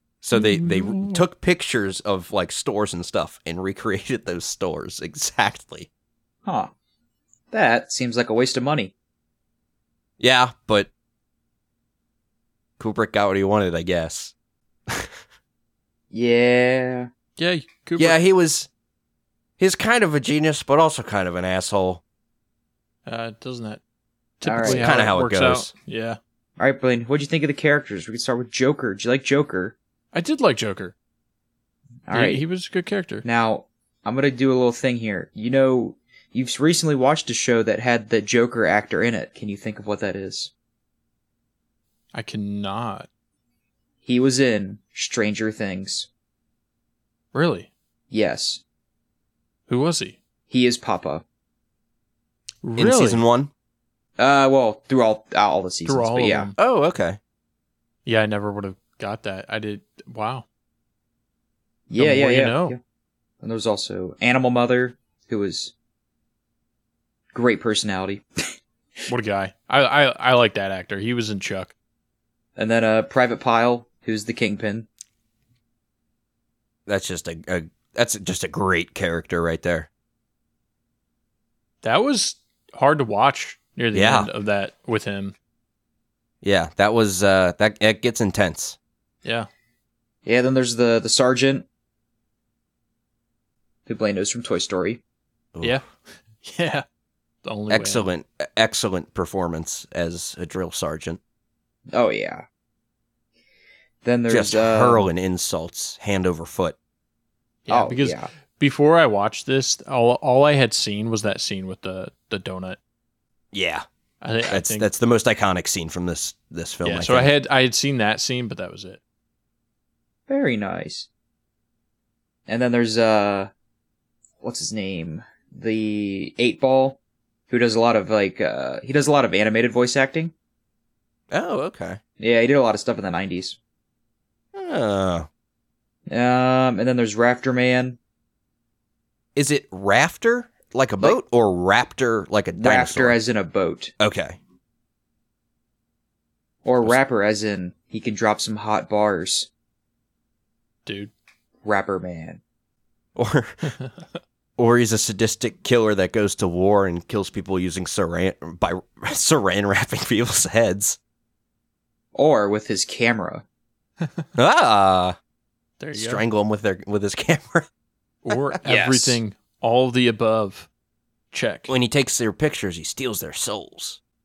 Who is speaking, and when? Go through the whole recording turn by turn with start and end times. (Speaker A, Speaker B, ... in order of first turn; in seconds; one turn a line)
Speaker A: 0.2-5.9
Speaker B: 0.3-1.2
Speaker C: 6.5-6.7
Speaker C: 7.5-8.9
Speaker A: 10.2-10.9
Speaker A: 12.8-14.3
Speaker A: 14.9-15.2
Speaker C: 16.1-17.1
Speaker B: 17.4-18.2
Speaker A: 18.0-18.7
Speaker A: 19.6-22.0
Speaker B: 23.1-23.8
Speaker B: 24.4-26.2
Speaker C: 24.4-24.9
Speaker A: 24.6-25.7
Speaker C: 26.6-29.7
Speaker B: 30.1-30.9
Speaker C: 32.1-32.4
Speaker B: 32.1-33.2
Speaker C: 33.2-40.5
Speaker B: 42.1-43.1
Speaker C: 44.0-46.1
Speaker B: 47.3-47.7
Speaker C: 48.1-48.6
Speaker B: 49.7-50.2
Speaker C: 50.5-51.2
Speaker B: 52.6-53.2
Speaker A: 52.8-53.5
Speaker C: 54.2-56.5
Speaker B: 55.9-56.5
Speaker A: 56.6-57.2
Speaker B: 58.0-60.4
Speaker C: 61.9-62.8
Speaker B: 62.0-62.7
Speaker C: 63.4-65.7
Speaker C: 67.3-68.5
Speaker B: 69.1-71.7
Speaker C: 72.5-74.8
Speaker A: 76.9-79.9
Speaker B: 81.8-85.3
Speaker A: 83.9-84.3
Speaker A: 86.4-88.8
Speaker C: 90.2-91.6
Speaker C: 93.9-95.0
Speaker B: 96.4-96.8
Speaker B: 97.4-98.0
Speaker A: 97.7-101.2
Speaker C: 101.9-102.4
Speaker C: 104.0-105.1
Speaker A: 104.3-106.8
Speaker B: 107.7-112.8
Speaker C: 107.7-108.3
Speaker A: 113.5-113.8
Speaker B: 114.2-114.9
Speaker A: 114.5-117.3
Speaker B: 116.8-119.0
Speaker C: 120.3-121.1
Speaker C: 122.5-123.5
Speaker C: 124.4-127.0
Speaker C: 127.5-130.3
Speaker A: 131.3-132.0
Speaker C: 132.2-133.6
Speaker A: 134.5-135.3
Speaker C: 136.1-138.0
Speaker A: 139.3-143.2
Speaker C: 142.6-143.9
Speaker A: 144.0-144.4
Speaker C: 146.6-149.5
Speaker B: 150.8-151.1
Speaker C: 151.6-152.4
Speaker A: 153.2-153.7
Speaker B: 153.7-154.2
Speaker A: 154.6-161.0
Speaker C: 162.1-163.4
Speaker B: 164.0-164.2
Speaker A: 164.3-165.2
Speaker B: 165.8-166.2
Speaker A: 165.9-167.7
Speaker B: 168.2-170.7
Speaker A: 168.3-169.2
Speaker B: 171.3-171.7
Speaker A: 171.7-174.0